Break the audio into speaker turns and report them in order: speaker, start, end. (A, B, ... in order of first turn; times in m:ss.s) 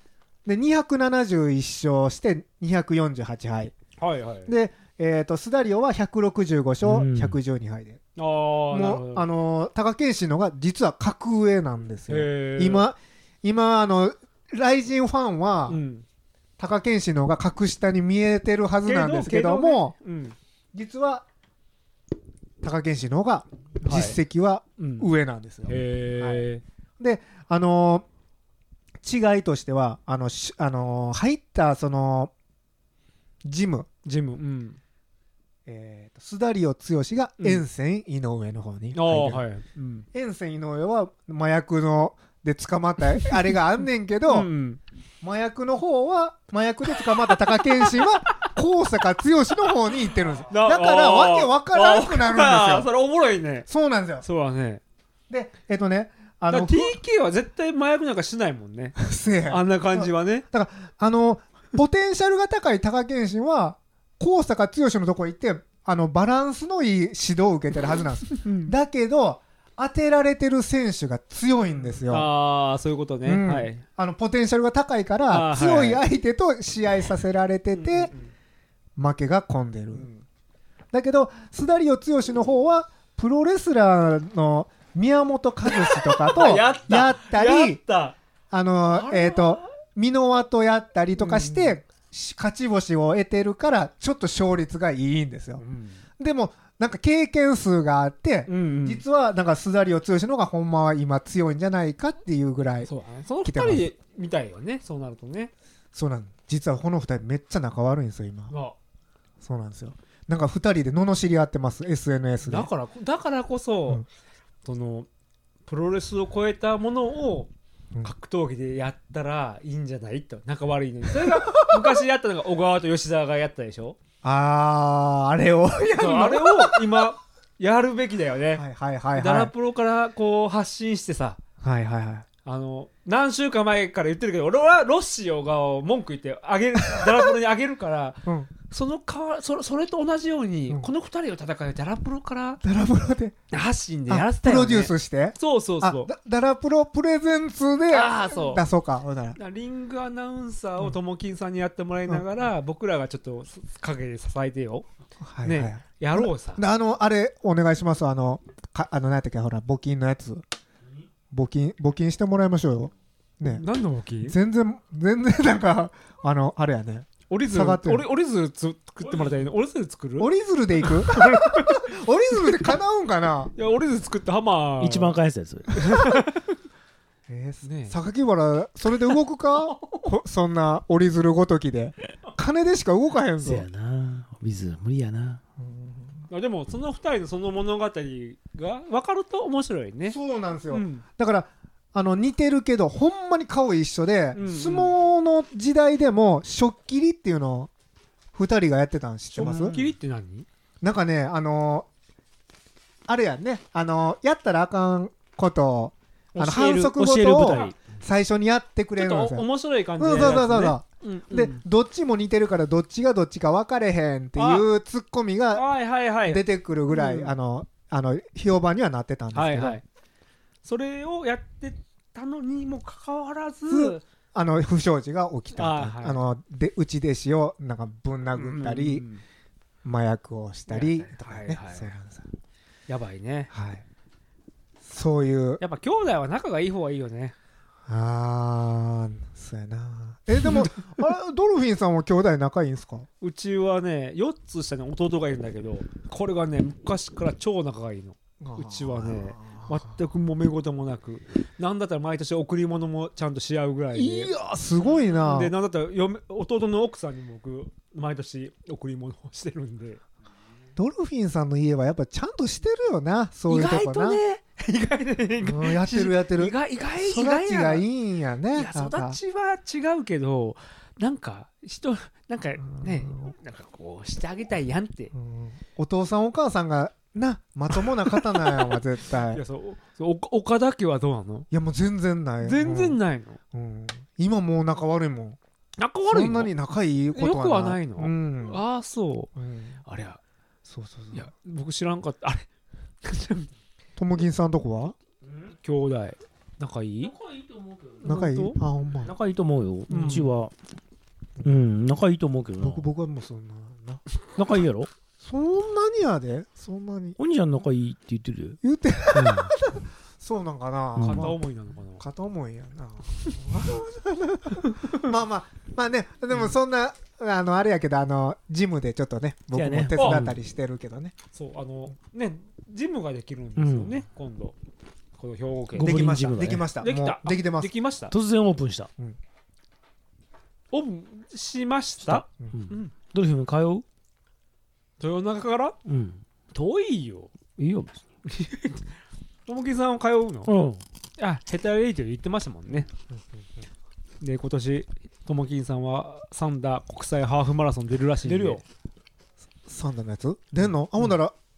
0:00.4-0:03.7 A
0:04.0-0:04.5 B
0:04.5-0:08.0 A
0:06.8-0:07.4 C
0:08.2-0:09.3 B
0:08.7-0:15.8 A
0:12.1-0:12.9 B
0:15.7-0:16.0 B
0:16.6-0:20.0 A
0:18.8-0:20.4 B
0:20.7-0:21.2 A
0:22.6-0:26.4 A
0:23.8-0:24.2 B
0:24.8-0:25.1 B
0:25.7-0:26.6 B
0:27.0-0:28.1 A
0:29.0-0:32.3 A
0:33.4-0:33.9 A
0:34.0-0:34.8 B
0:35.7-0:39.4 A
0:37.4-0:37.6 B
0:38.9-0:40.1 B
0:40.1-0:44.5 A
0:44.3-0:44.8 B
0:45.2-0:52.9 A
0:50.5-0:53.7 B
0:53.7-0:54.2 A
0:54.2-0:54.8 B
0:55.3-0:57.0 A
0:56.5-1:00.4 B
0:59.0-1:12.3 A
1:08.4-1:08.7 B
1:11.8-1:13.8 B
1:13.2-1:18.1 A
1:15.3-1:16.0 B
1:17.7-1:18.3 B
1:19.0-1:20.1 A
1:19.9-1:20.2 B
1:20.9-1:27.8 A
1:25.7-1:28.2 B
1:28.5-1:35.6 A
1:28.9-1:29.7 B
1:31.2-1:31.8 B
1:35.6-1:36.0 B
1:36.2-1:42.9 A
1:38.5-1:39.0 B
1:42.8-1:45.5 B
1:43.4-1:43.9 A
1:45.9-1:48.5 A
1:48.5-1:48.8 B
1:49.4-1:52.7 A
1:52.4-1:54.0 B
1:54.6-1:55.1 B
1:55.7-1:57.5 B
1:58.0-2:04.0 B
2:01.2-2:02.0 A
2:04.2-2:07.1 A
2:06.0-2:08.6 B
2:08.6-2:09.5 A
2:09.2-2:11.4 B
2:11.6-2:12.3 A
2:12.4-2:22.6 B
2:16.8-2:17.3 A
2:18.2-2:18.5 A
2:22.6-2:23.4 A
2:23.5-2:26.1 B
2:24.1-2:29.4 A
2:27.9-2:28.6 B
2:29.4-2:34.9 B
2:35.2-2:40.4 A
2:35.4-2:36.6 B
2:41.3-2:43.6 A
2:43.4-2:44.4 B
2:44.2-2:48.1 A
2:47.3-2:50.3 B
2:50.2-2:53.5 A
2:50.8-2:51.8 B
2:53.6-2:55.2 B
2:54.8-2:55.8 C
2:55.7-2:56.4 B
2:57.3-3:03.7 A
2:57.6-2:58.0 B
2:59.6-3:00.1 B
3:03.4-3:05.4 C
3:05.6-3:06.3 A
3:06.3-3:10.2 B
3:10.1-3:17.7 A
3:10.7-3:11.0 B
3:14.4-3:15.0 B
3:18.3-3:19.8 A
3:19.4-3:19.9 C
3:19.4-3:20.5 B
3:20.8-3:21.9 A
3:23.1-3:29.5 A
3:26.3-3:27.8 C
3:27.4-3:27.8 B
3:29.0-3:31.6 B
3:30.0-3:35.7 A
3:34.4-3:34.7 B
3:35.5-3:37.3 B
3:36.2-3:39.8 A
3:39.3-3:39.8 B
3:40.6-3:44.0 B
3:43.7-3:49.0 A
3:45.6-3:46.2 B
3:48.4-3:49.2 B
3:49.8-3:52.3 A
3:50.7-3:51.9 B
3:52.9-3:53.5 B
3:53.5-3:53.8 A
3:54.8-3:55.6 A
3:55.6-3:57.4 B
3:57.9-4:03.1 A
4:03.2-4:14.3 B
4:08.4-4:10.0 A
4:13.9-4:15.5 A
4:15.1-4:20.0 B
4:20.8-4:24.2 A
4:23.5-4:27.9 B
4:25.4-4:29.2 A
4:28.5-4:35.1 B
4:32.7-4:33.3 A
4:35.1-4:39.4 A
4:37.8-4:38.7 B
4:39.3-4:41.5 B
4:41.5-4:43.0 A
4:42.4-4:43.4 B
4:43.5-4:45.4 A
4:45.8-4:46.5 B
4:46.0-4:48.6 A
4:47.1-4:49.3 B
4:49.4-4:49.8 A
4:49.9-4:50.2 B
4:50.6-4:51.3 A
4:51.1-4:52.5 B
4:53.0-4:53.5 B
4:54.0-4:55.0 A
4:55.3-4:55.5 C
4:55.6-4:57.1 B
4:57.0-4:58.2 C
4:58.0-4:58.6 B
4:58.0-4:59.1 A
4:59.0-5:00.5 C
4:59.9-5:00.3 B
5:01.4-5:02.8 C
5:02.6-5:04.0 A
5:04.4-5:04.9 C
5:05.2-5:07.2 A
5:07.2-5:08.6 C
5:08.6-5:11.4 A
5:09.1-5:09.5 C
5:11.0-5:11.3 C
5:11.0-5:12.0 B
5:12.0-5:21.1 A
5:19.5-5:20.4 C
5:20.0-5:20.3 B
5:21.3-5:24.6 B
5:23.6-5:24.0 C
5:25.2-5:26.1 B
5:25.8-5:27.7 A
5:25.8-5:26.7 C
5:26.8-5:28.1 B
5:28.1-5:28.9 C
5:30.7-5:32.9 B
5:32.0-5:33.8 C
5:35.0-5:35.8 B
5:35.9-5:36.2 C
5:36.5-5:37.3 B
5:37.6-5:38.0 C
5:38.2-5:38.9 B
5:39.5-5:40.5 B
5:40.5-5:40.8 C
5:41.2-5:42.9 B
5:42.9-5:43.4 A
5:44.2-5:48.6 B
5:48.2-5:48.6 C
5:49.7-5:51.4 A